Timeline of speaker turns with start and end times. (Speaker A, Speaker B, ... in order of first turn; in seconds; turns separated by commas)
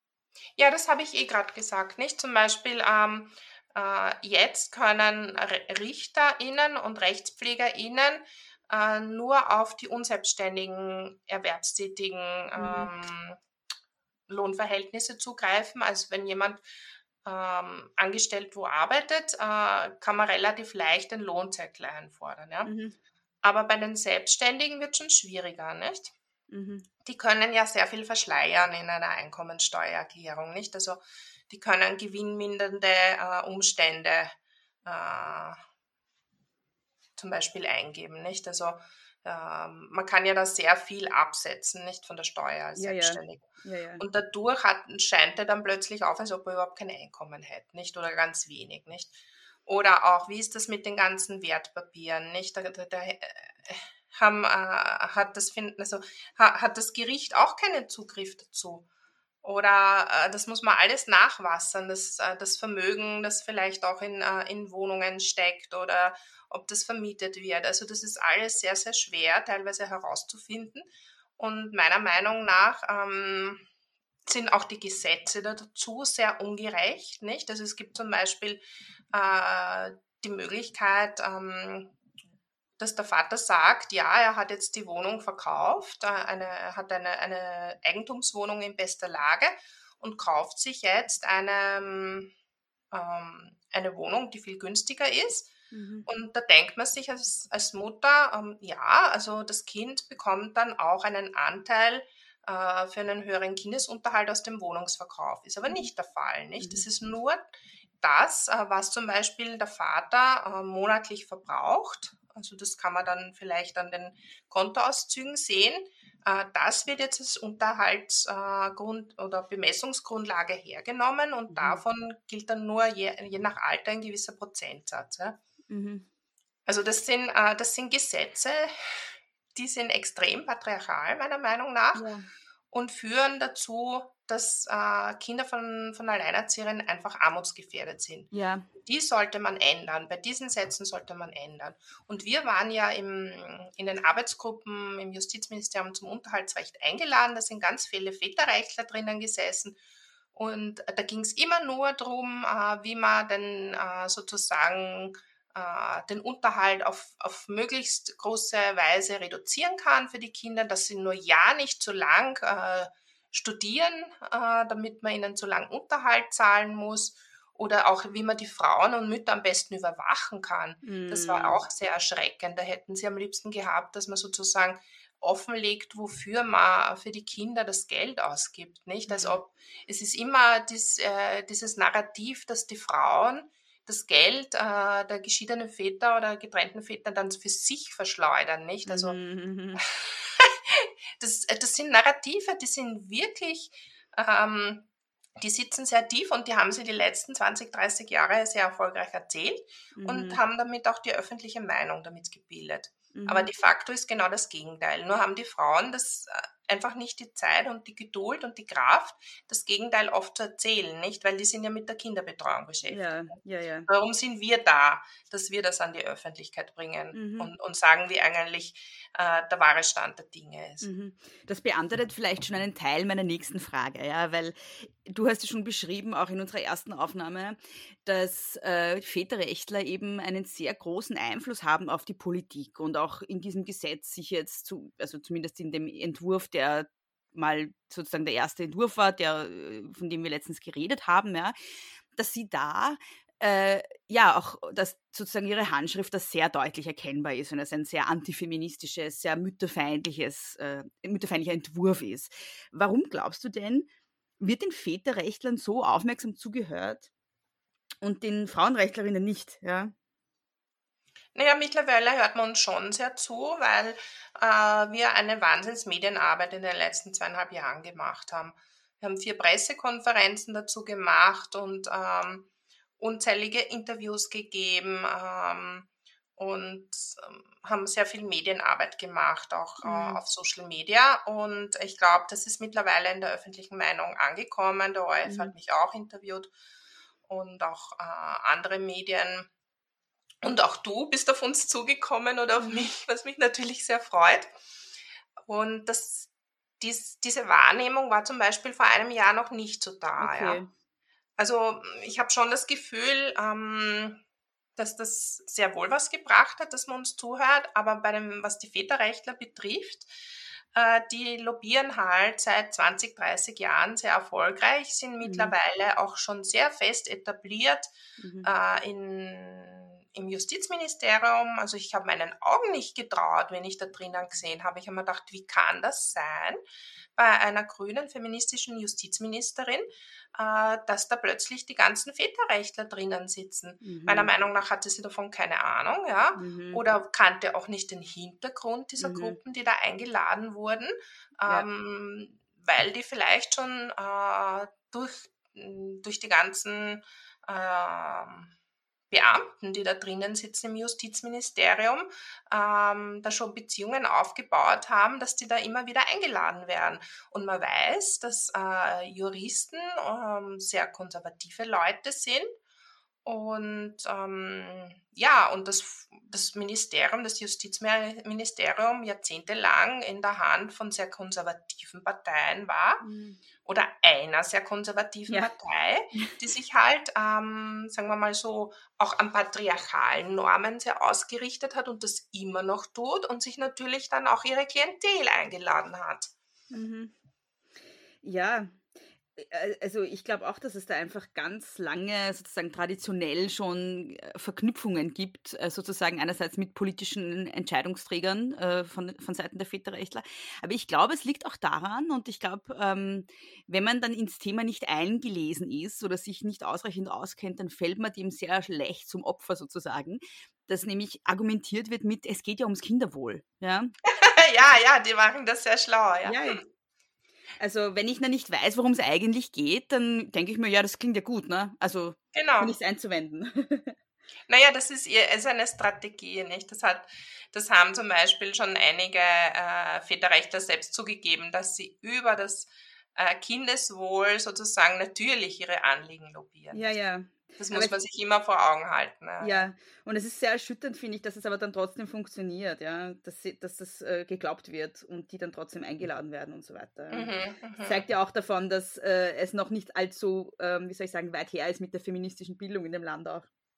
Speaker A: 0.6-13.4, Speaker B: 12.6-12.9, Speaker A: 14.3-16.6, Speaker A: 17.2-22.7, Speaker B: 22.6-22.9, Speaker A: 23.4-26.1, Speaker B: 26.5-26.9, Speaker A: 27.0-34.3, Speaker A: 34.8-35.6, Speaker A: 37.2-43.4, Speaker B: 42.7-44.0, Speaker A: 44.0-58.9, Speaker A: 59.4-70.9, Speaker A: 71.4-73.6, Speaker A: 74.2-81.9, Speaker A: 82.8-92.3, Speaker A: 92.9-95.5, Speaker B: 95.7-96.1, Speaker A: 96.0-107.4, Speaker B: 106.6-106.8, Speaker A: 108.0-125.4, Speaker B: 121.5-121.8, Speaker B: 125.7-126.1, Speaker A: 126.7-128.7, Speaker A: 129.5-132.1, Speaker B: 131.9-132.3, Speaker A: 132.7-138.3, Speaker B: 138.3-138.7, Speaker A: 138.8-149.8, Speaker A: 150.3-189.2, Speaker B: 170.8-171.6, Speaker B: 179.1-179.4, Speaker B: 188.8-189.8, Speaker A: 190.0-213.3, Speaker B: 199.9-200.4, Speaker B: 203.1-203.5, Speaker B: 212.9-213.9, Speaker A: 213.9-220.9, Speaker B: 217.1-217.5, Speaker B: 220.8-241.6, Speaker B: 242.1-253.9, Speaker B: 254.4-257.1, Speaker B: 258.0-259.9, Speaker A: 261.3-272.5, Speaker A: 273.0-286.5, Speaker B: 279.8-280.2, Speaker B: 285.2-285.5, Speaker A: 287.3-289.5, Speaker A: 290.4-294.5, Speaker B: 292.6-292.9, Speaker A: 295.5-300.6, Speaker B: 300.2-300.7, Speaker A: 301.4-304.2, Speaker A: 304.8-310.1, Speaker A: 310.7-317.9, Speaker B: 315.2-315.5, Speaker B: 318.2-318.5, Speaker A: 318.4-326.6, Speaker A: 327.2-348.5, Speaker B: 333.8-334.3, Speaker B: 336.4-336.8, Speaker B: 339.0-339.4, Speaker A: 349.1-362.5, Speaker A: 363.2-373.0, Speaker B: 373.0-373.4, Speaker A: 373.6-386.3, Speaker B: 386.7-387.1, Speaker B: 388.2-413.9, Speaker A: 414.1-416.6, Speaker B: 416.2-416.6, Speaker B: 417.6-423.9, Speaker A: 422.3-422.8, Speaker A: 424.5-437.0, Speaker B: 436.7-438.0, Speaker A: 437.6-439.7, Speaker B: 439.4-453.5, Speaker A: 447.1-448.0